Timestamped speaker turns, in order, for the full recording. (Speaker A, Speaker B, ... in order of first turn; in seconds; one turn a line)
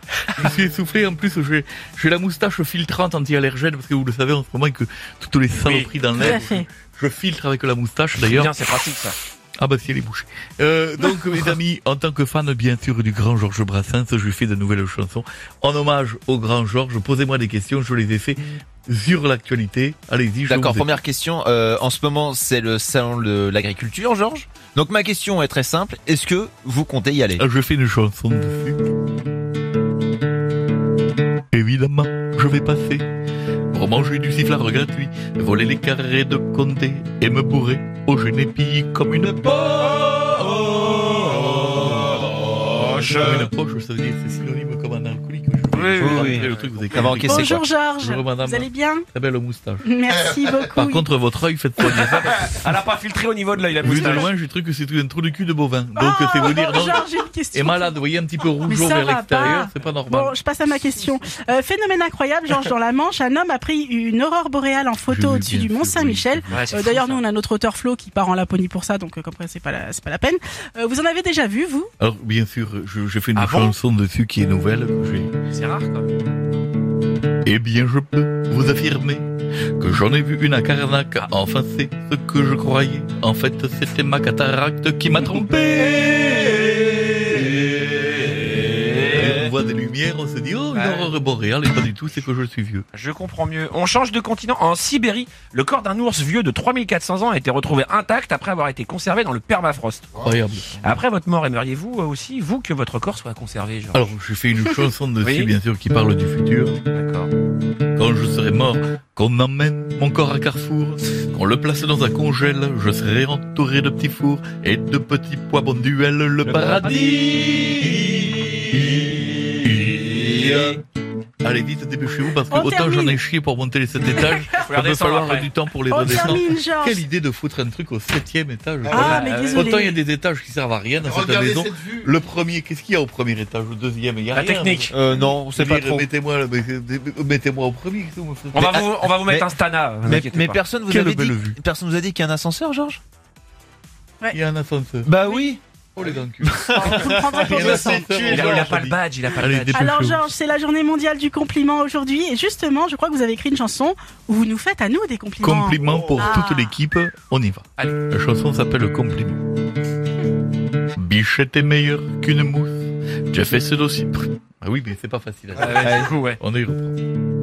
Speaker A: 0.3-8.5
Speaker B: 5.5-5.9
Speaker C: 6.2-6.6
Speaker B: 8.2-9.2
Speaker A: 9.6-20.9
Speaker D: 20.5-27.4
Speaker A: 27.4-28.8
Speaker A: 31.5-33.0
Speaker A: 33.7-40.4
Speaker B: 41.0-43.5
Speaker A: 41.7-42.0
Speaker A: 43.0-49.9
Speaker B: 45.7-47.1
Speaker D: 46.0-47.6
Speaker C: 47.2-49.0
Speaker C: 49.8-51.0
Speaker A: 50.7-52.5
Speaker B: 51.9-54.3
Speaker A: 53.8-60.3
Speaker C: 53.9-54.3
Speaker C: 56.0-57.9
Speaker C: 58.6-71.9
Speaker A: 65.1-66.9
Speaker B: 66.5-67.2
Speaker A: 72.0-75.3
Speaker B: 73.3-73.8
Speaker B: 75.5-76.1
Speaker A: 77.4-79.2
Speaker A: 79.8-87.3
Speaker B: 88.1-89.5
Speaker A: 89.1-92.8
Speaker B: 90.7-91.1
Speaker B: 92.9-100.1
Speaker A: 100.2-100.8
Speaker B: 100.8-104.1
Speaker A: 103.9-106.8
Speaker B: 105.2-105.5
Speaker B: 106.9-107.3
Speaker A: 108.0-117.9
Speaker D: 116.5-117.4
Speaker B: 116.8-118.3
Speaker A: 118.7-120.8
Speaker D: 120.3-120.6
Speaker A: 121.4-134.9
Speaker C: 122.5-123.2
Speaker C: 124.1-124.4
Speaker B: 124.5-125.5
Speaker C: 125.9-127.0
Speaker C: 128.9-130.0
Speaker B: 128.9-129.7
Speaker B: 134.3-134.9
Speaker D: 134.9-136.1
Speaker A: 135.5-138.8
Speaker B: 138.5-140.6
Speaker D: 138.6-139.5
Speaker D: 140.0-143.0
Speaker A: 140.9-141.6
Speaker A: 144.3-145.1
Speaker D: 145.1-145.6
Speaker A: 145.9-150.3
Speaker D: 146.4-148.7
Speaker C: 146.7-148.1
Speaker B: 148.2-149.8
Speaker C: 149.7-156.8
Speaker A: 155.4-159.4
Speaker A: 160.9-166.9
Speaker B: 165.6-166.4
Speaker D: 165.8-166.1